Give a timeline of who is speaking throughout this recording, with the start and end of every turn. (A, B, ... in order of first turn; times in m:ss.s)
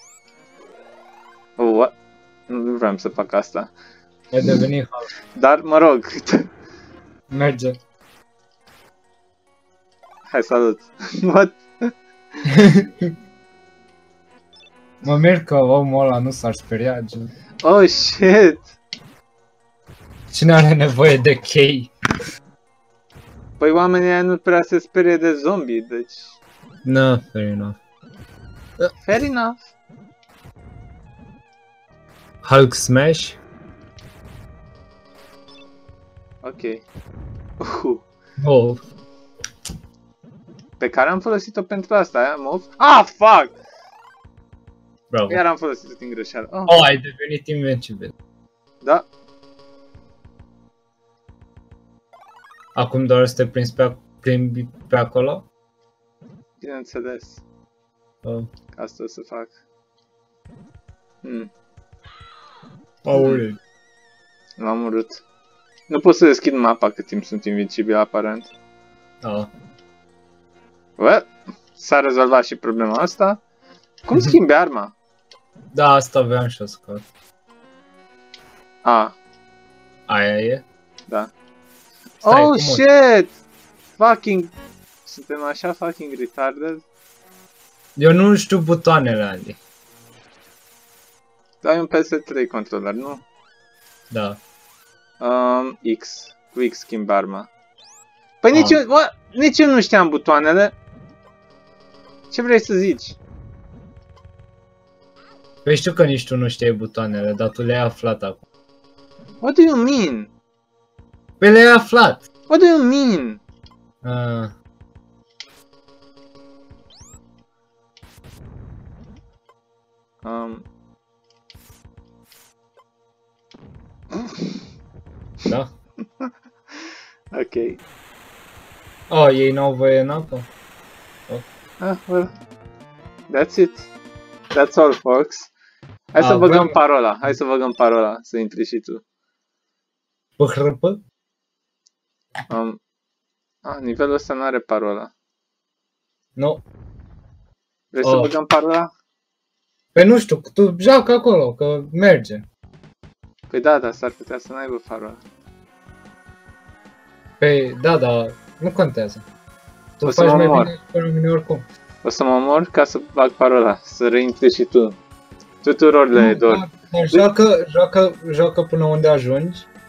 0:01.6-0:02.0 A
0:02.5-0:03.7 A
0:04.3-0:05.1 B
0:05.3-0:06.5 A
0:07.3-0:07.8 B
0:10.3-0:11.9 A
0:12.5-0:13.1 B
0:15.0-0:17.3 B
0:17.6-0:18.7 A
0:20.3-0:21.9 B
0:23.6-0:26.4 A
0:26.8-0:27.8 B
0:29.0-0:29.6 A
0:32.4-0:33.4 B
0:36.4-0:36.8 A
0:37.6-0:38.0 A
0:38.4-0:38.8 B
0:40.8-0:43.6 A
0:45.1-0:45.4 B
0:45.3-0:46.9 A
0:46.6-0:48.1 B
0:48.8-0:49.1 A
0:52.8-0:55.4 B
0:56.6-0:57.4 A
0:58.2-0:58.5 B
0:58.7-0:59.5 A
1:01.2-1:01.5 A
1:03.0-1:03.6 B
1:03.1-1:03.4 A
1:04.6-1:05.2 A
1:05.9-1:08.5 A
1:09.2-1:09.5 B
1:11.0-1:13.4 A
1:14.0-1:14.9 A
1:15.7-1:17.1 B
1:18.8-1:19.2 A
1:20.1-1:20.6 B
1:22.2-1:22.8 B
1:22.2-1:23.4 A
1:24.0-1:26.8 A
1:28.0-1:29.6 B
1:31.6-1:33.2 A
1:34.1-1:34.4 B
1:35.2-1:37.5 A
1:38.4-1:40.7 A
1:38.5-1:38.8 B
1:42.3-1:43.2 A
1:45.6-1:48.4 B
1:49.4-1:50.3 A
1:51.4-1:52.2 B
1:52.5-1:53.4 A
1:54.0-1:54.5 B
2:00.2-2:00.6 A
2:04.1-2:04.5 A
2:05.4-2:05.7 B
2:07.3-2:07.8 A
2:09.1-2:10.5 B
2:11.8-2:12.3 A
2:13.3-2:13.9 A
2:14.5-2:15.5 A
2:16.1-2:19.0 A
2:16.2-2:16.8 B
2:20.4-2:21.0 B
2:22.5-2:22.8 A
2:23.6-2:25.1 A
2:26.4-2:26.6 B
2:27.9-2:28.9 A
2:28.0-2:28.3 B
2:29.9-2:32.4 B
2:33.5-2:35.2 A
2:37.4-2:39.2 B
2:40.0-2:41.6 B
2:40.0-2:40.7 A
2:42.0-2:45.0 A
2:45.6-2:47.3 A
2:46.1-2:49.7 B